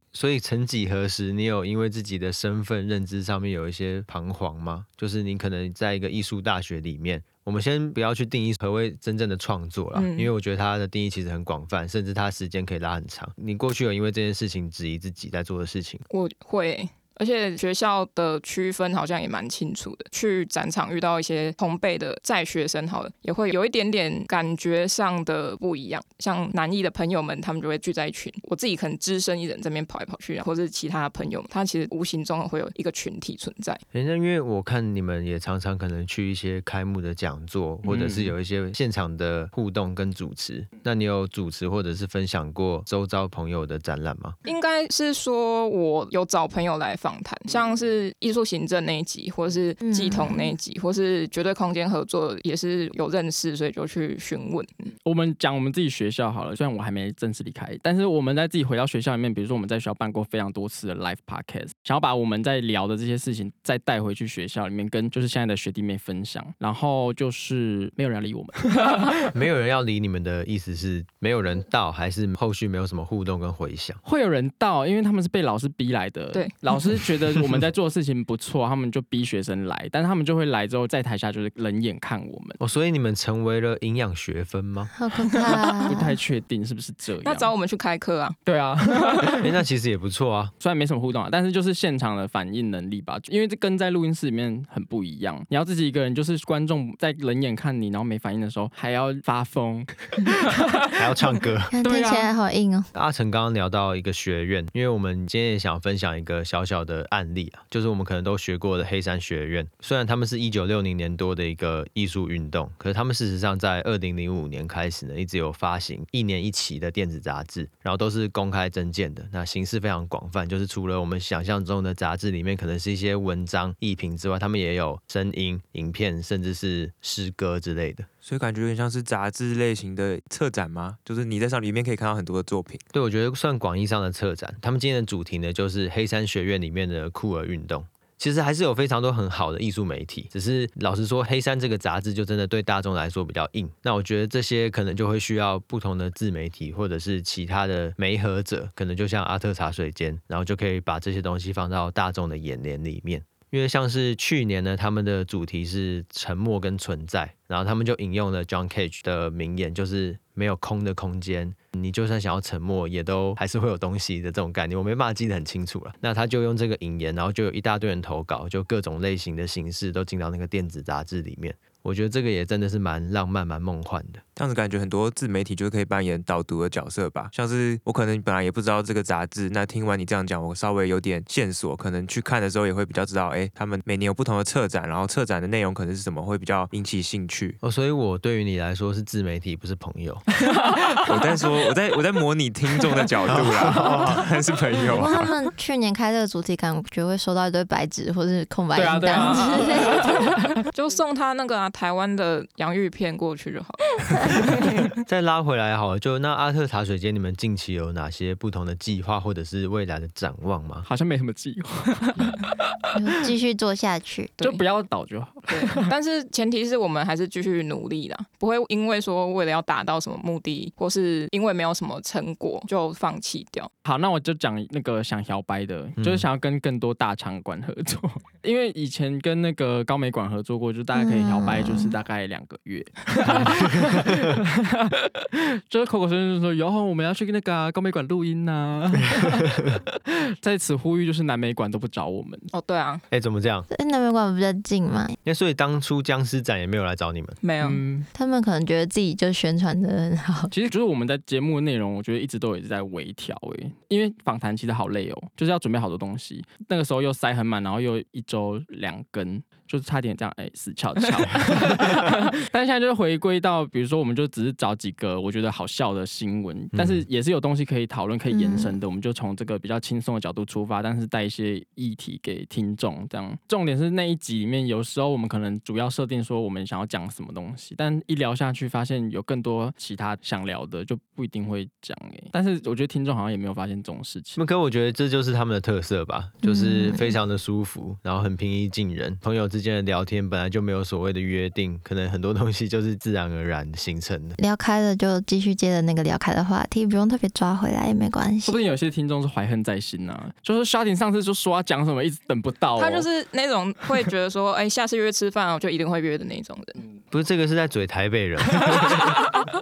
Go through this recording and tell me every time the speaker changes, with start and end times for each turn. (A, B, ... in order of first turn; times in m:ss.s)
0:00.1-0:16.0 A
0:09.9-0:10.3 B
0:16.1-0:33.8 B
0:33.9-0:44.4 A
0:37.8-0:38.3 C
0:44.4-0:54.9 B
0:49.8-0:50.5 D
0:55.0-1:09.2 C
1:09.3-1:14.0 A
1:14.0-1:22.6 C
1:22.6-1:24.9 A
1:24.9-1:26.1 D
1:25.3-1:27.5 C
1:25.4-1:25.9 B
1:27.2-1:28.4 B
1:28.4-1:29.4 C
1:29.0-1:29.4 B
1:29.4-1:30.5 A
1:30.6-1:40.9 C
1:40.9-1:41.7 A
1:41.7-1:42.9 D
1:41.8-1:42.3 C
1:42.9-2:08.1 A
2:08.2-2:12.8 E
2:12.9-2:54.2 A
2:54.4-3:07.6 E
3:07.6-3:10.2 A
3:10.4-3:11.0 C
3:11.0-3:15.3 E
3:13.3-3:14.2 A
3:14.9-3:20.3 D
3:18.7-3:20.5 C
3:20.7-3:24.7 B
3:25.0-3:30.8 A
3:30.8-3:32.9 C
3:32.9-3:34.3 D
3:34.4-3:35.9 C
3:35.5-3:43.7 B
3:43.8-4:02.5 C
3:46.0-3:46.2 A
3:50.9-3:51.9 D
4:02.5-4:03.0 B
4:03.1-4:03.7 A
4:03.7-4:05.2 D
4:05.2-4:07.4 A
4:07.4-4:07.8 B
4:07.6-4:08.1 C
4:08.1-4:10.5 D
4:10.5-4:44.4 C
4:26.7-4:27.0 A
4:28.3-4:28.8 D
4:44.4-4:54.4 A
4:46.4-4:47.1 D
4:54.4-4:58.6 D
4:58.4-5:03.1 C
5:02.8-5:06.8 B
5:07.1-5:09.2 A